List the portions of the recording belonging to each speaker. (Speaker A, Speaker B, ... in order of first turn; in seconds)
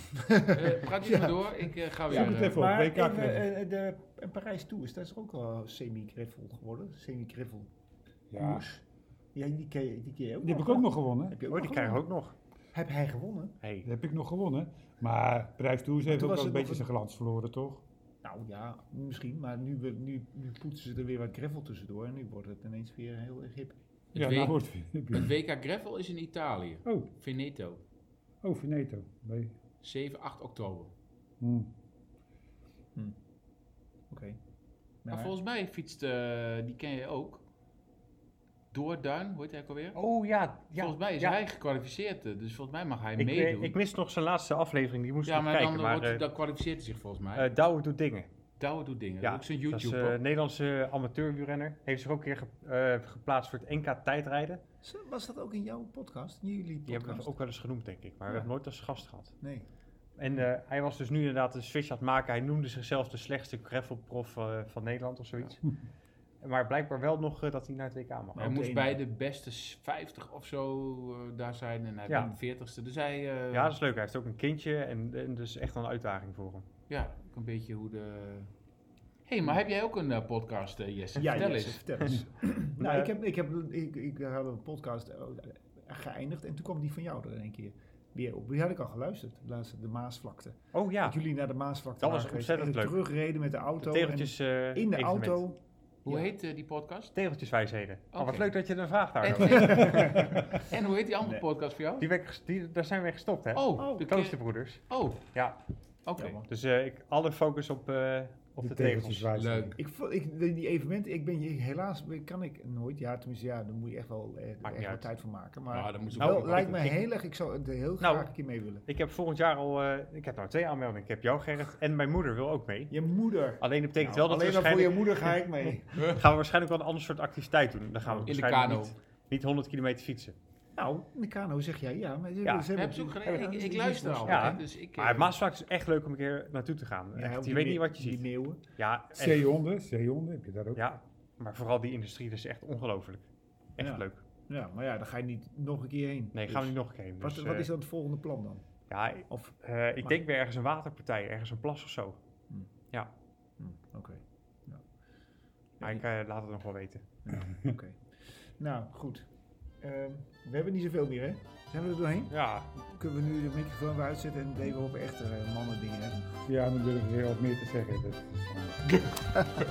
Speaker A: 0.1-7.7, 8.4-8.8, 9.3-12.1, 12.7-13.6, 16.1-16.9, 18.2-23.8, 34.1-34.4, 35.0-35.3, 54.8-57.3, 59.4-59.7, 68.3-69.0, 81.2-96.3, 99.5-100.7, 103.8-104.1, 106.2-106.5, 109.8-118.8, 122.9-126.0, 130.8-134.6, 137.1-138.6, 143.8-148.6, 149.3-150.2, 153.6-154.8, 157.2-159.3, 159.8-166.3
Speaker B: 0.5-2.7, 24.1-24.6, 25.1-27.8, 29.8-30.9, 35.1-37.4, 38.7-40.0, 40.8-43.8, 45.2-47.5, 48.6-50.2, 68.4-73.7, 76.9-78.5, 79.2-81.8, 96.0-97.1, 98.1-98.5, 99.2-102.1, 103.5-104.4, 104.9-105.2, 106.0-106.4, 109.3-109.8, 115.7-116.9, 128.2-128.9, 132.7-135.3
Speaker C: 2.1-3.4, 8.3-8.6, 10.4-11.4, 13.8-17.8, 24.1-25.3, 28.4-29.6, 31.4-31.7, 108.6-109.8, 139.1-140.8, 166.4-168.8
Speaker D: 11.5-12.3, 13.6-13.9, 39.9-41.4, 43.2-46.2, 47.4-48.3, 49.2-54.6, 56.9-59.4, 60.2-65.6, 66.4-68.5, 72.1-72.3, 73.5-76.7, 82.8-83.1, 90.7-91.2, 92.0-93.0, 93.8-95.4, 97.1-100.4, 102.0-105.6, 106.5-109.3, 114.6-115.1, 116.2-117.0, 118.0-118.3, 118.8-122.9, 123.6-130.3, 134.2-138.2, 138.8-139.4, 140.8-144.2, 146.3-147.7, 148.9-152.2, 155.8-157.1, 162.3-162.7